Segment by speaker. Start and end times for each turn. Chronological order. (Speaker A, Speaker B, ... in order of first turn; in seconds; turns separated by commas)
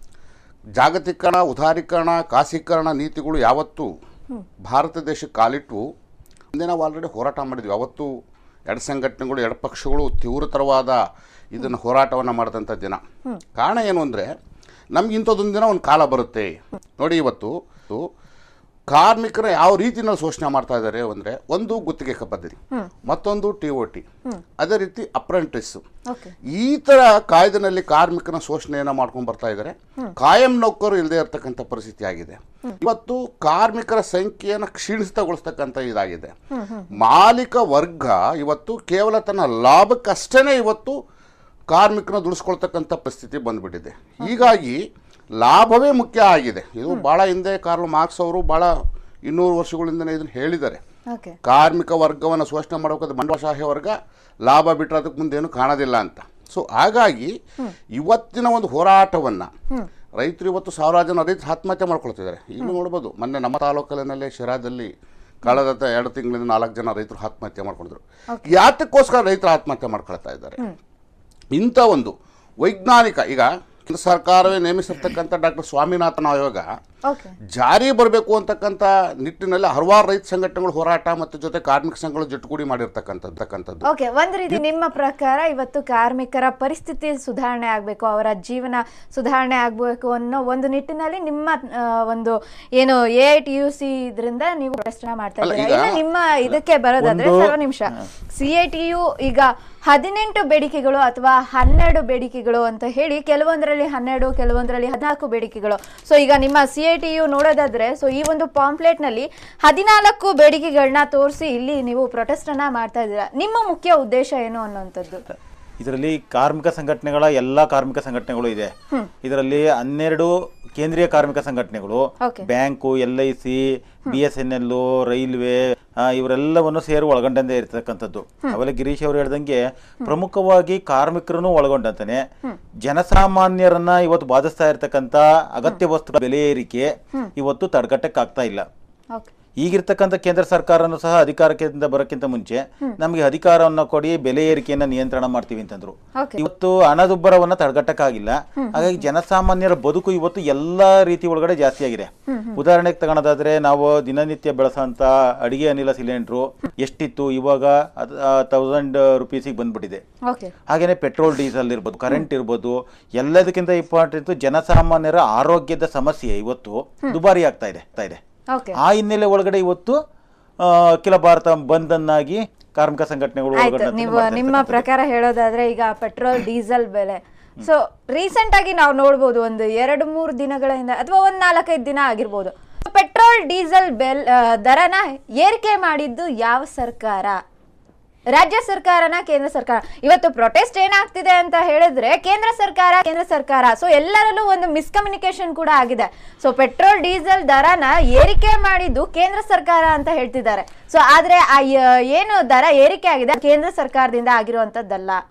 Speaker A: 0.8-3.9, Speaker A: 4.7-5.8, Speaker A: 6.5-8.1, Speaker A: 8.7-11.0, Speaker A: 11.5-13.0, Speaker A: 13.6-14.3, Speaker A: 14.9-18.0, Speaker A: 18.9-24.1, Speaker A: 24.6-25.8, Speaker B: 26.1-26.3, Speaker A: 26.5-36.3, Speaker B: 36.5-36.9, Speaker A: 36.9-41.0, Speaker A: 41.7-44.8, Speaker B: 44.2-44.5, Speaker A: 45.4-48.7, Speaker A: 49.3-50.8, Speaker B: 51.1-51.4, Speaker A: 51.4-57.3, Speaker A: 57.9-59.5, Speaker A: 60.2-70.6, Speaker B: 68.3-68.6, Speaker A: 71.5-76.7, Speaker B: 77.1-77.3, Speaker A: 77.5-83.8, Speaker B: 83.9-115.2, Speaker A: 95.4-96.0, Speaker C: 97.0-98.0, Speaker C: 115.8-132.2, Speaker C: 132.8-138.7, Speaker C: 139.6-160.0, Speaker B: 146.2-146.4, Speaker B: 148.6-149.0, Speaker B: 152.3-152.6, Speaker B: 160.3-160.5, Speaker C: 160.7-168.2, Speaker B: 168.5-168.8, Speaker C: 168.8-170.0, Speaker C: 170.6-174.8, Speaker B: 173.6-187.4, Speaker B: 188.3-205.2